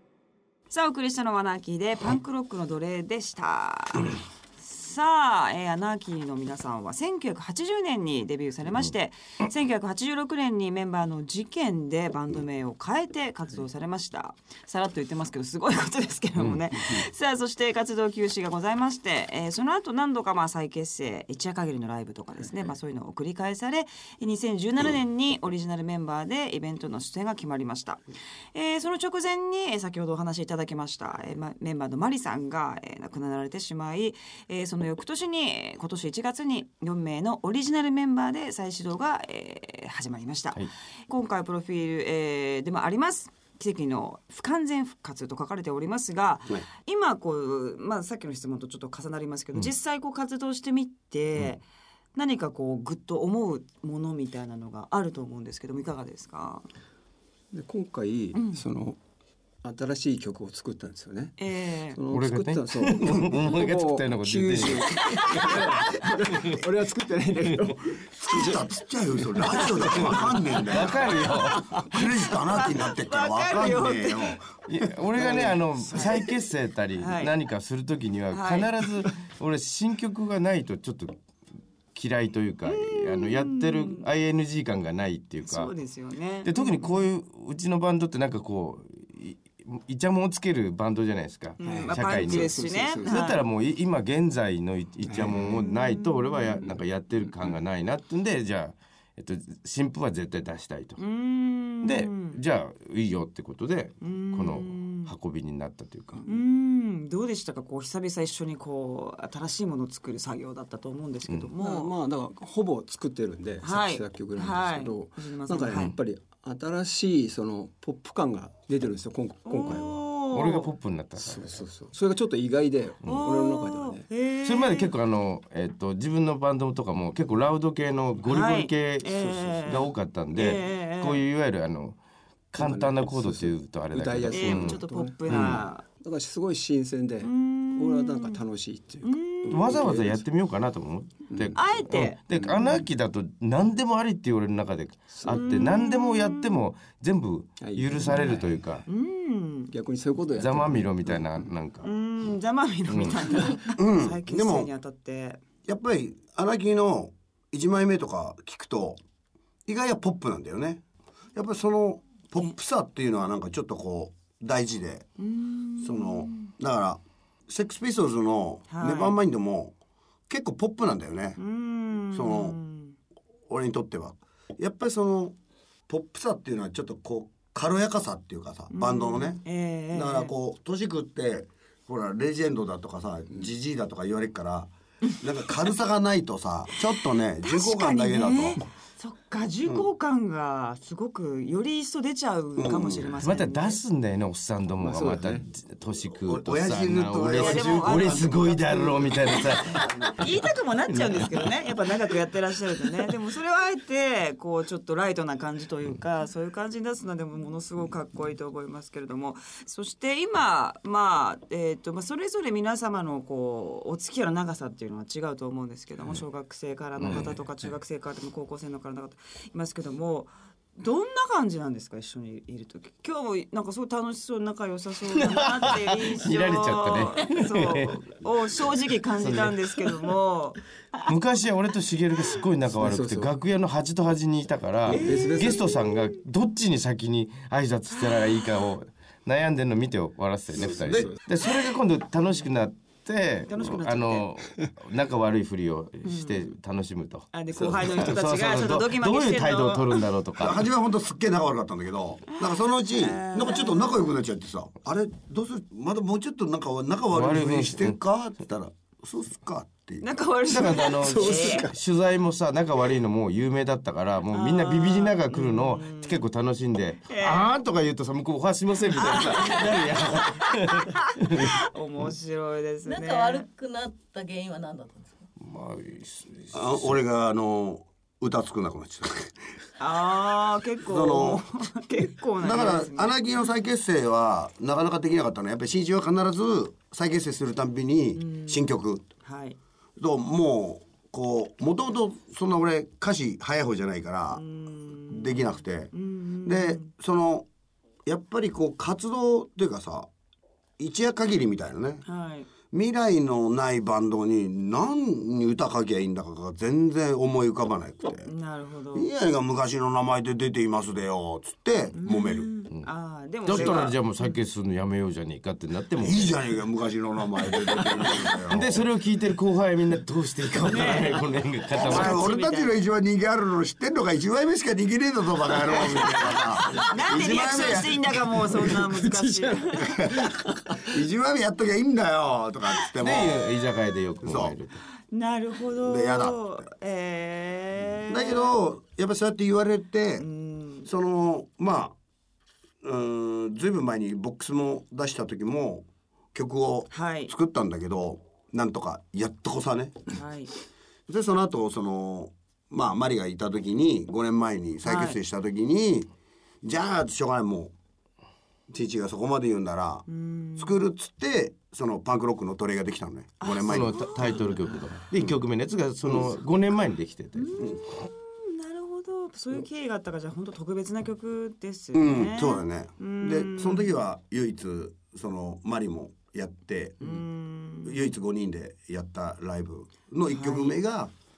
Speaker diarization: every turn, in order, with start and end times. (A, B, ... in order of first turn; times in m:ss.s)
0:00.7-0:28.0 A
0:28.5-0:51.6 A
0:52.2-0:56.7 A
0:57.5-0:59.0 B
0:58.3-0:58.6 A
0:59.6-1:08.6 B
1:01.4-1:02.0 A
1:02.1-1:05.6 C
1:05.0-1:05.5 A
1:06.3-1:06.6 C
1:08.2-1:11.2 D
1:09.2-1:10.7 B
1:10.7-1:11.8 C
1:11.5-1:14.4 A
1:11.8-1:14.5 D
1:14.7-1:21.2 C
1:15.2-1:16.2 B
1:17.0-1:17.3 A
1:18.3-1:18.7 A
1:21.9-1:25.7 C
1:22.6-1:24.1 A
1:25.4-1:27.0 A
1:26.4-1:41.0 C
1:31.6-1:33.4 A
1:31.6-1:33.3 B
1:35.0-1:35.7 B
1:35.5-1:36.6 A
1:37.3-1:37.6 B
1:41.0-1:42.4 A
1:41.8-1:46.2 C
1:44.0-1:45.1 A
1:46.2-1:51.9 A
1:51.6-2:00.1 B
1:53.6-1:55.9 A
1:55.7-1:55.9 C
1:59.5-2:00.7 A
2:00.3-2:01.6 C
2:01.2-2:04.1 B
2:03.0-2:03.3 C
2:03.0-2:04.9 A
2:04.4-2:12.0 C
2:08.3-2:11.2 A
2:12.5-2:15.6 C
2:12.6-2:20.2 B
2:14.3-2:15.8 A
2:17.2-2:18.4 A
2:19.0-2:19.8 A
2:19.5-2:28.8 C
2:21.3-2:21.6 B
2:21.5-2:22.8 A
2:22.3-2:22.8 B
2:25.2-2:25.5 B
2:25.2-2:26.6 A
2:27.6-2:28.6 B
2:28.0-2:28.3 A
2:28.8-2:29.7 A
2:29.7-2:31.4 B
2:30.4-2:31.9 C
2:31.8-2:35.4 A
2:32.9-2:33.2 C
2:33.8-2:34.7 D
2:35.7-2:39.0 D
2:39.7-2:40.8 D
2:41.3-2:45.0 D
2:45.2-2:46.5 A
2:45.8-2:49.7 D
2:48.7-2:49.2 A
2:50.3-2:51.4 D
2:51.4-2:53.0 A
2:52.1-2:52.6 D
2:53.5-2:55.3 D
2:55.9-3:08.6 D
2:58.7-3:00.3 A
3:07.4-3:13.8 A
3:12.6-3:13.2 D
3:13.2-3:20.2 C
3:14.8-3:15.4 B
3:16.2-3:20.2 D
3:17.4-3:19.4 A
3:20.1-3:50.6 A
3:20.9-3:21.4 C
3:37.0-3:37.3 C
3:45.2-3:48.0 C
3:49.2-3:49.9 C
3:51.0-4:10.6 C
3:52.7-3:53.3 B
3:54.9-3:55.7 B
3:54.9-3:56.2 A
4:00.8-4:01.2 B
4:00.8-4:01.1 D
4:03.5-4:04.3 A
4:06.0-4:06.5 A
4:07.3-4:10.1 A
4:10.4-4:20.2 D
4:12.9-4:14.1 A
4:17.1-4:18.0 C
4:20.0-4:21.7 A
4:20.5-4:31.5 C
4:21.0-4:21.8 B
4:24.3-4:26.2 A
4:27.1-4:27.5 A
4:28.9-4:33.5 A
4:32.9-4:35.1 E
4:35.4-4:37.0 C
4:36.5-4:39.4 D
4:39.8-4:43.2 A
4:40.8-4:41.4 D
4:42.4-4:49.0 D
4:48.2-4:48.7 A
4:49.2-4:49.6 A
4:50.0-4:54.4 D
4:54.3-4:56.9 A
4:55.1-4:57.5 D
4:58.0-5:00.1 D
5:00.8-5:02.0 D
5:02.0-5:02.5 A
5:02.7-5:08.3 D
5:08.2-5:09.1 A
5:08.9-5:12.5 D
5:11.9-5:14.4 A
5:13.4-5:16.4 C
5:13.5-5:13.9 D
5:16.0-5:18.8 D
5:18.5-5:22.3 C
5:20.6-5:21.2 A
5:21.7-5:28.1 D
5:21.8-5:22.8 A
5:26.8-5:30.0 A
5:28.7-5:30.8 B
5:29.8-5:33.4 D
5:33.0-5:34.8 C
5:34.2-5:34.6 D
5:35.1-5:38.6 A
5:35.8-5:36.7 D
5:38.1-5:40.2 D
5:40.2-5:40.9 A
5:40.8-5:42.0 D
5:42.8-5:50.1 D
5:46.9-5:47.3 A
5:50.1-5:50.5 A
5:51.1-5:56.1 D
5:54.8-5:55.2 A
5:56.6-5:57.7 D
5:58.7-6:00.0 D
6:00.1-6:00.8 A
6:00.6-6:04.0 D
6:03.4-6:04.4 A
6:03.6-6:07.8 C
6:06.0-6:06.3 D
6:07.3-6:13.9 A
6:11.9-6:17.2 D
6:17.0-6:18.1 A
6:17.8-6:21.1 D
6:20.3-6:20.8 A